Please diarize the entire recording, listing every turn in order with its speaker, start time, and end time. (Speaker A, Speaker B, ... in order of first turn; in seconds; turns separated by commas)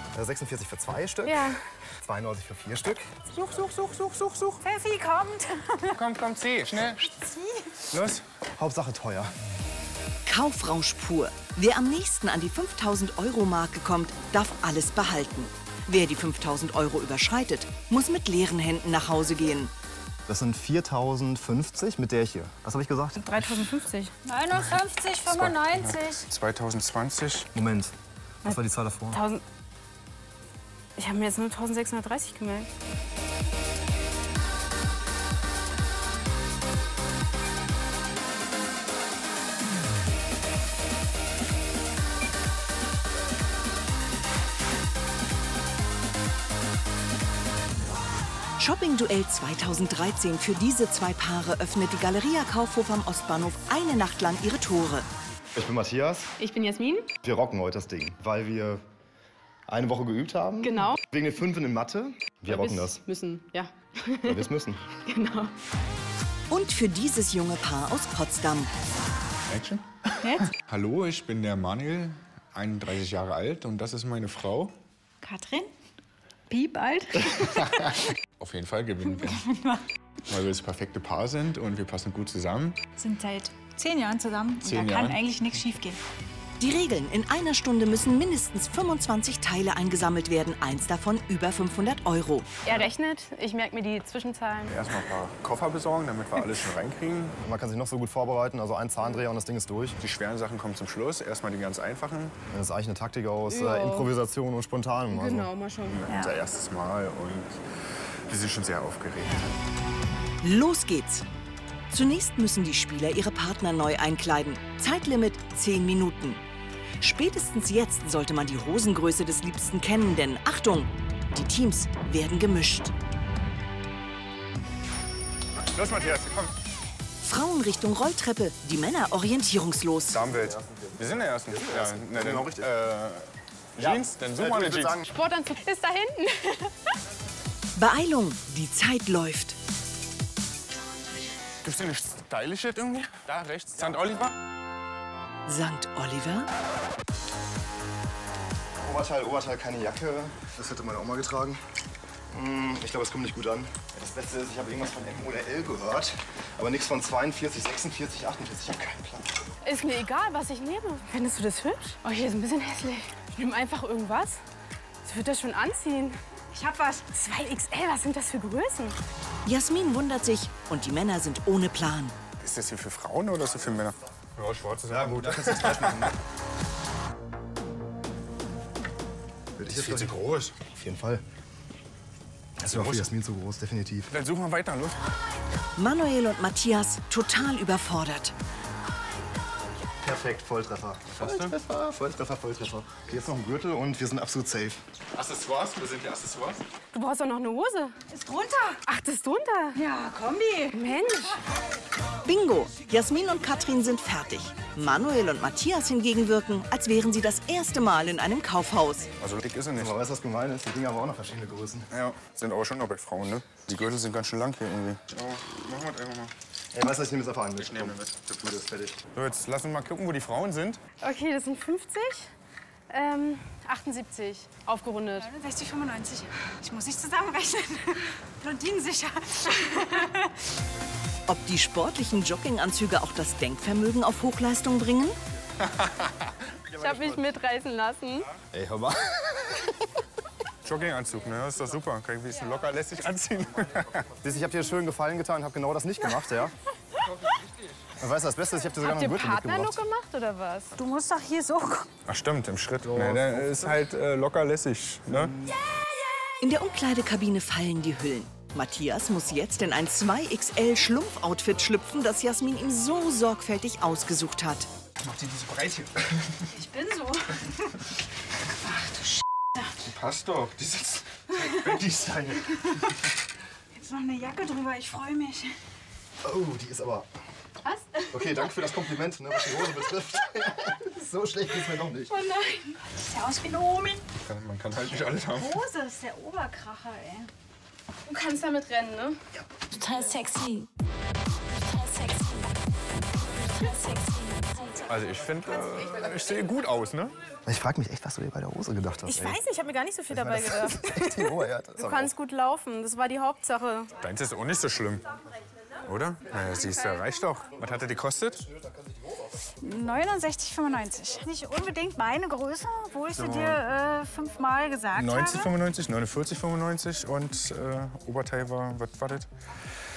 Speaker A: 0.1-3.1, Speaker B: 1.2-1.6, Speaker C: 3.3-4.6, Speaker D: 4.6-6.0, Speaker C: 5.9-7.1, Speaker D: 7.0-7.8, Speaker C: 7.9-8.2, Speaker A: 7.9-9.3, Speaker E: 10.2-19.7, Speaker A: 20.3-23.5, Speaker B: 23.2-24.1, Speaker D: 24.2-26.2, Speaker C: 25.2-27.5, Speaker A: 27.5-27.9, Speaker A: 28.4-29.2, Speaker B: 29.1-29.4, Speaker B: 30.9-32.7, Speaker E: 48.6-55.1, Speaker A: 55.5-56.3, Speaker B: 56.4-57.1, Speaker A: 57.2-58.8, Speaker A: 59.7-63.0, Speaker B: 60.6-61.0, Speaker B: 62.5-64.5, Speaker A: 64.2-64.8, Speaker B: 65.0-65.5, Speaker E: 66.5-68.7, Speaker C: 69.5-74.7, Speaker D: 70.2-70.5, Speaker D: 75.2-75.7, Speaker D: 76.5-78.1, Speaker C: 77.2-79.4, Speaker D: 79.0-79.8, Speaker C: 80.3-82.8, Speaker D: 83.0-86.0, Speaker C: 84.6-85.2, Speaker E: 86.6-92.5, Speaker B: 92.6-94.7, Speaker C: 94.7-97.4, Speaker A: 97.4-100.0, Speaker C: 100.0-102.3, Speaker A: 102.5-105.5, Speaker B: 103.5-104.1, Speaker B: 105.1-106.0, Speaker C: 105.9-109.5, Speaker D: 106.1-106.3, Speaker E: 110.4-111.3, Speaker E: 111.9-116.4, Speaker E: 117.0-122.9, Speaker C: 125.6-126.5, Speaker E: 127.2-130.2, Speaker C: 130.1-135.1, Speaker A: 130.2-132.7, Speaker A: 133.8-135.0, Speaker B: 135.1-136.9, Speaker E: 137.8-139.6, Speaker C: 141.6-144.3, Speaker E: 145.4-146.5, Speaker A: 148.8-151.6, Speaker A: 152.3-159.3, Speaker B: 159.6-164.4, Speaker B: 165.0-166.2, Speaker D: 166.6-166.9, Speaker B: 166.8-169.0, Speaker E: 169.4-172.2, Speaker C: 172.4-176.1, Speaker A: 174.9-176.2, Speaker A: 179.6-181.2, Speaker C: 179.7-180.6, Speaker A: 182.6-184.1, Speaker C: 182.7-183.1, Speaker C: 184.1-185.0, Speaker E: 185.8-188.3, Speaker A: 190.0-194.8, Speaker C: 191.1-191.5, Speaker C: 195.1-196.6, Speaker B: 196.9-198.0, Speaker D: 198.1-198.8, Speaker B: 198.8-199.8, Speaker D: 199.7-200.8, Speaker B: 200.7-201.4, Speaker E: 202.2-209.1, Speaker C: 209.2-209.9, Speaker A: 209.8-211.9, Speaker C: 211.9-216.3, Speaker A: 216.7-219.0, Speaker C: 217.6-218.5, Speaker C: 219.1-220.8, Speaker B: 221.0-222.3, Speaker B: 222.9-225.3, Speaker D: 225.2-230.3, Speaker E: 231.3-235.2, Speaker C: 235.6-236.3, Speaker B: 236.8-238.3, Speaker A: 236.8-237.2, Speaker A: 238.5-239.9, Speaker C: 240.6-244.2, Speaker A: 244.2-246.5, Speaker C: 247.0-247.5, Speaker A: 248.0-249.8, Speaker B: 248.7-250.8, Speaker D: 250.7-251.9, Speaker C: 252.1-255.3, Speaker A: 252.9-253.8, Speaker A: 255.1-255.6, Speaker E: 256.4-264.7, Speaker C: 265.0-266.4, Speaker D: 266.5-267.8, Speaker D: 268.4-269.7, Speaker C: 269.8-272.8, Speaker D: 271.3-271.8, Speaker D: 273.7-275.5, Speaker A: 276.2-277.1, Speaker A: 278.1-282.1, Speaker B: 282.1-282.8, Speaker D: 282.8-284.0, Speaker C: 284.2-285.6, Speaker D: 285.3-287.3, Speaker B: 288.1-289.2, Speaker D: 289.7-290.7, Speaker D: 291.6-292.5, Speaker D: 293.4-294.8, Speaker C: 294.8-297.1, Speaker A: 297.4-299.4, Speaker B: 299.1-303.9, Speaker A: 300.1-302.1, Speaker C: 304.0-305.0, Speaker C: 305.8-308.5, Speaker D: 309.6-315.5, Speaker C: 313.1-313.6, Speaker C: 314.9-319.3